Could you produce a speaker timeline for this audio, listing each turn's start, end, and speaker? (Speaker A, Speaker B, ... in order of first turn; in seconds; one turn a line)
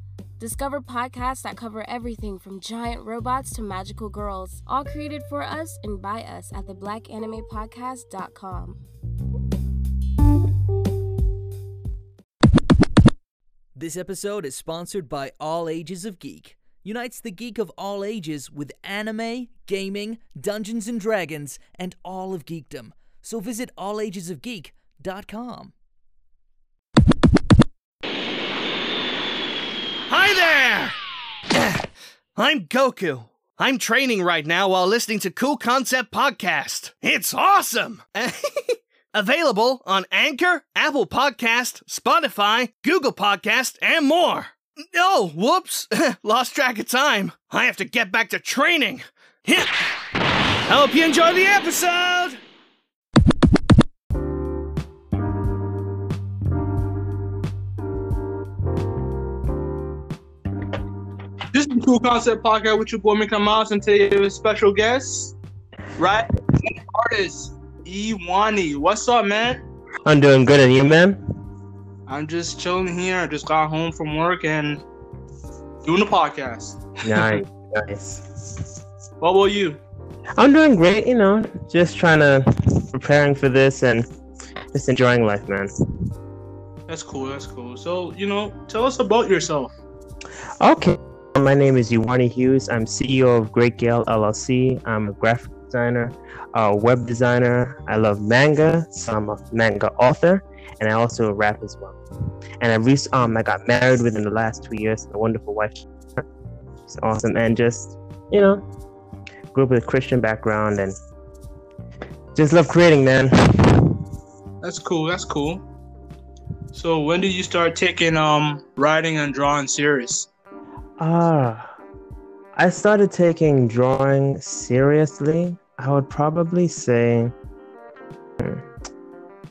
Speaker A: 0.4-8.8
Speaker B: 13.8-25.7
Speaker C: 30.1-31.0
Speaker C: 31.5-31.8
Speaker C: 32.4-49.8
Speaker C: 50.7-52.4
Speaker D: 61.5-65.3
Speaker D: 66.0-69.6
Speaker E: 70.0-71.2
Speaker D: 72.1-74.8
Speaker D: 75.8-77.4
Speaker E: 77.0-78.6
Speaker D: 79.2-79.8
Speaker E: 80.4-84.0
Speaker E: 84.7-85.7
Speaker D: 86.9-89.7
Speaker E: 90.6-102.0
Speaker E: 102.6-106.2
Speaker E: 106.9-108.6
Speaker E: 109.5-110.9
Speaker E: 112.3-114.0
Speaker D: 114.6-115.6
Speaker D: 116.7-120.3
Speaker E: 121.0-121.7
Speaker E: 122.5-127.3
Speaker E: 128.4-128.7